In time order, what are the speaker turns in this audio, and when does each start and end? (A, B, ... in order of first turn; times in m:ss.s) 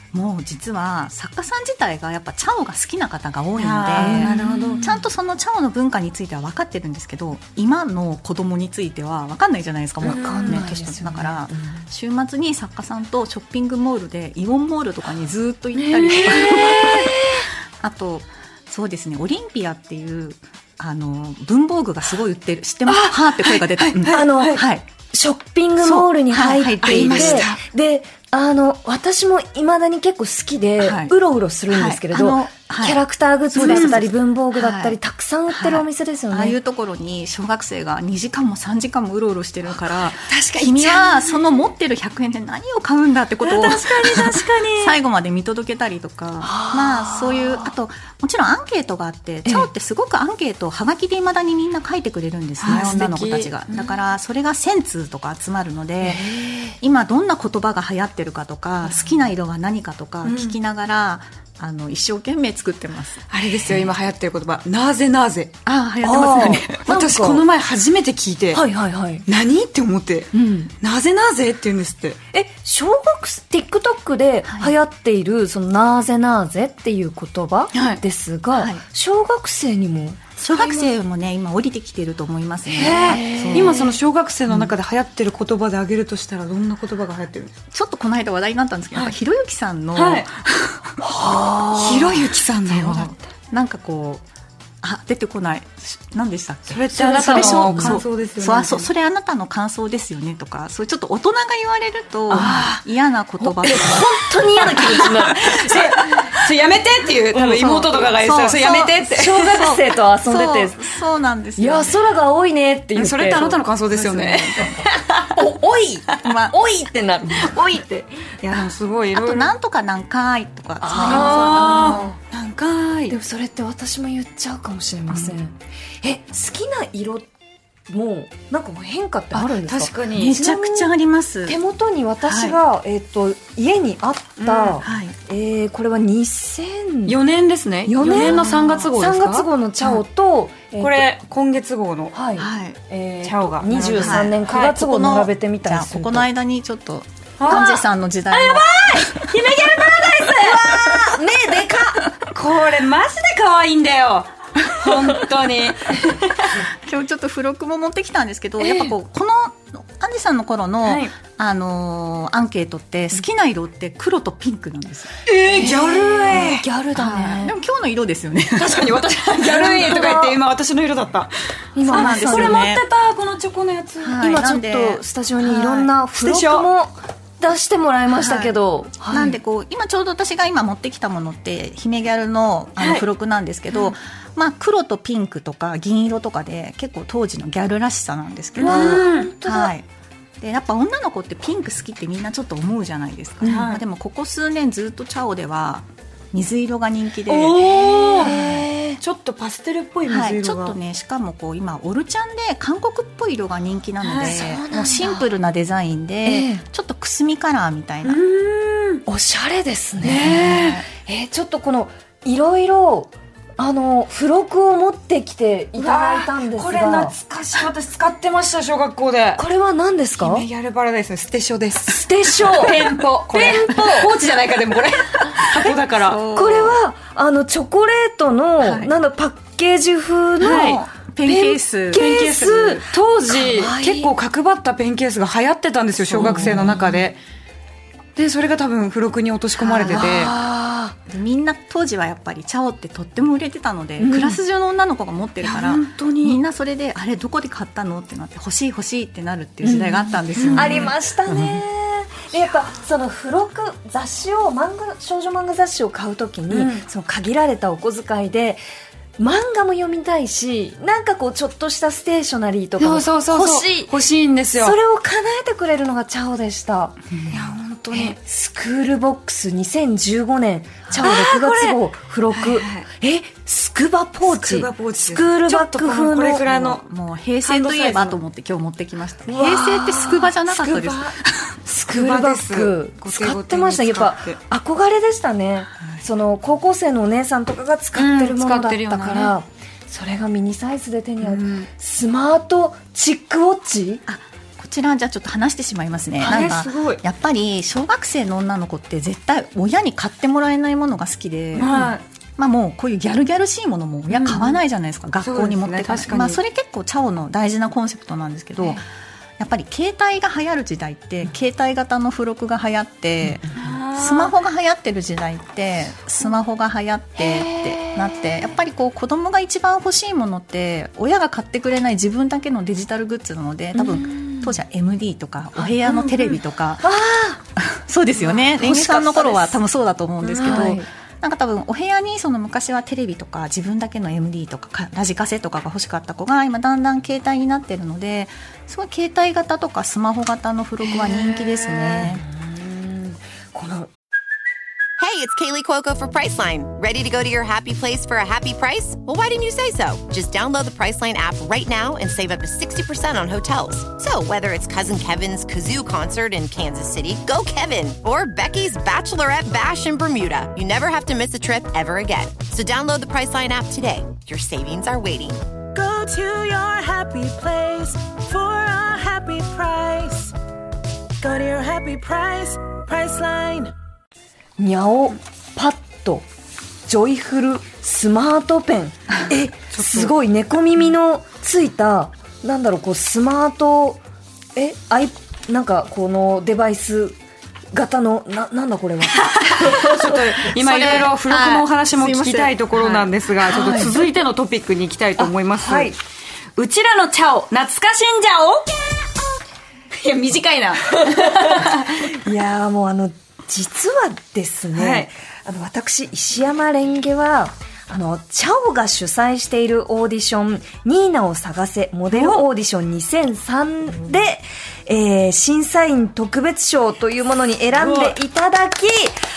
0:00.1-0:24.8 A
0:03.6-0:04.9 B
0:04.0-0:04.9 C
0:10.0-0:11.8 C
0:10.0-0:10.6 B
0:15.8-0:16.9 B
0:16.1-0:17.4 C
0:22.8-0:24.6 B
0:24.1-0:36.6 C
0:25.8-0:27.5 A
0:26.8-0:27.6 B
0:30.8-0:31.1 A
0:31.7-0:33.0 A
0:33.5-0:35.0 A
0:33.6-0:34.0 B
0:35.5-1:03.9 A
0:40.3-0:41.4 B
0:43.4-0:45.0 B
0:46.4-0:47.7 C
0:52.6-0:54.0 B
0:52.7-0:52.9 C
0:56.0-0:56.8 C
1:00.2-1:00.5 B
1:03.3-1:08.6 B
1:05.6-1:06.7 A
1:06.0-1:07.4 C
1:08.5-1:09.2 C
1:09.3-1:12.2 B
1:10.3-1:10.7 C
1:12.3-1:20.2 C
1:14.4-1:14.7 A
1:17.7-1:18.0 B
1:18.5-1:18.8 A
1:20.4-1:23.8 A
1:20.4-1:20.9 B
1:22.7-1:23.9 C
1:22.7-1:27.5 B
1:24.5-1:24.7 A
1:27.7-1:31.0 A
1:29.9-1:30.3 B
1:31.0-1:32.2 C
1:31.7-1:33.1 B
1:32.7-1:34.2 A
1:34.8-1:45.2 A
1:36.7-1:38.9 B
1:36.9-1:38.0 C
1:42.3-1:42.8 C
1:42.3-1:42.7 B
1:43.4-1:46.3 C
1:44.8-1:49.5 B
1:47.3-1:52.0 A
1:49.1-1:50.8 C
1:51.6-1:53.6 C
1:53.0-1:55.3 B
1:53.9-1:54.7 A
1:54.6-1:57.6 C
1:56.2-1:56.5 A
1:57.3-1:59.5 B
1:59.1-2:02.2 A
2:00.8-2:02.1 C
2:01.0-2:03.1 B
2:03.1-2:07.3 C
2:07.9-2:10.9 C
2:09.3-2:10.4 B
2:10.1-2:11.6 A
2:11.4-2:17.2 C
2:12.2-2:12.6 A
2:14.4-2:14.8 B
2:14.8-2:15.1 A
2:17.0-2:19.5 B
2:17.9-2:21.0 C
2:18.0-2:18.8 A
2:20.8-2:22.1 B
2:22.1-2:26.3 C
2:22.4-2:22.8 A
2:23.2-2:24.8 B
2:24.0-2:29.1 A
2:27.4-2:31.1 B
2:27.5-2:27.7 C
2:30.5-2:32.0 C
2:32.2-2:36.6 B
2:36.6-2:45.1 A
2:38.6-2:38.9 C
2:40.8-2:41.1 B
2:45.2-2:46.6 B
2:45.5-2:47.5 C
2:46.9-2:50.2 A
2:48.6-2:51.3 B
2:49.8-2:50.3 C
2:51.7-2:52.6 C
2:51.8-2:54.2 B
2:51.8-2:52.8 A
2:54.0-2:55.0 A
2:54.2-2:59.3 C
2:55.4-2:56.7 B
2:59.1-3:09.8 A
3:02.8-3:03.0 B
3:08.6-3:09.3 B
3:08.6-3:09.7 C
3:10.4-3:18.5 A
3:13.4-3:13.8 B
3:17.3-3:18.4 B
3:18.1-3:19.0 C
3:19.0-3:20.8 B
3:20.0-3:28.2 A
3:24.0-3:24.4 B
3:24.3-3:25.2 C
3:26.2-3:26.6 C
3:28.0-3:29.0 B
3:29.0-3:37.1 C
3:30.0-3:30.8 B
3:30.3-3:30.8 A
3:35.8-3:39.4 B
3:39.4-3:40.4 C
3:40.2-3:46.2 B
3:41.9-3:44.1 C
3:45.4-3:46.8 A
3:46.3-3:51.4 C
3:48.6-3:48.9 A
3:50.4-3:52.0 A
3:50.4-3:57.2 B
3:51.9-3:54.1 C
3:56.1-3:57.1 A
3:56.1-3:56.6 C
3:58.2-4:00.3 B
3:59.6-4:00.3 A
3:59.8-4:01.0 C
4:01.1-4:11.6 A
4:04.0-4:04.4 C
4:05.4-4:06.4 B
4:09.6-4:18.6 C
4:10.3-4:10.9 B
4:16.5-4:16.8 B
4:19.2-4:23.9 C
4:22.8-4:24.8 B
4:24.6-4:27.0 C
4:27.3-4:28.2 B
4:27.9-4:36.4 C
4:31.0-4:31.8 B
4:32.3-4:32.8 B
4:34.2-4:36.8 B
4:36.4-4:41.5 A
4:37.4-4:38.2 B
4:39.3-4:40.3 C
4:40.4-4:41.1 B
4:41.6-4:54.0 C
4:41.9-4:44.4 B
4:47.9-4:49.3 B
4:51.2-4:51.7 B
4:54.1-5:01.7 A
4:56.2-4:57.0 B
5:01.5-5:02.0 B
5:01.6-5:01.9 C
5:02.4-5:08.8 A
5:04.1-5:04.6 B
5:05.2-5:06.4 B
5:09.4-5:27.0 A
5:13.6-5:14.3 B
5:17.2-5:18.1 C
5:24.1-5:24.4 C
5:25.6-5:26.1 C
5:25.8-5:26.3 B
5:26.8-5:27.4 C
5:27.6-5:42.2 A
5:28.3-5:29.5 C
5:30.2-5:30.8 B
5:30.4-5:30.8 C
5:41.0-5:43.9 C
5:45.0-6:05.5 D
6:05.7-6:10.3 E
6:11.2-6:13.7 E
6:14.6-6:16.2 C
6:16.9-6:24.0 C
6:19.7-6:20.1 B
6:24.6-6:27.2 C
6:27.7-6:30.2 C
6:29.2-6:35.9 B
6:30.6-6:33.1 A
6:33.4-6:33.9 C
6:35.2-6:36.0 C
6:36.6-6:38.7 B
6:39.9-6:42.2 B
6:41.0-6:59.2 C
6:44.8-6:45.1 B
6:52.1-6:52.4 B
6:57.8-6:58.2 B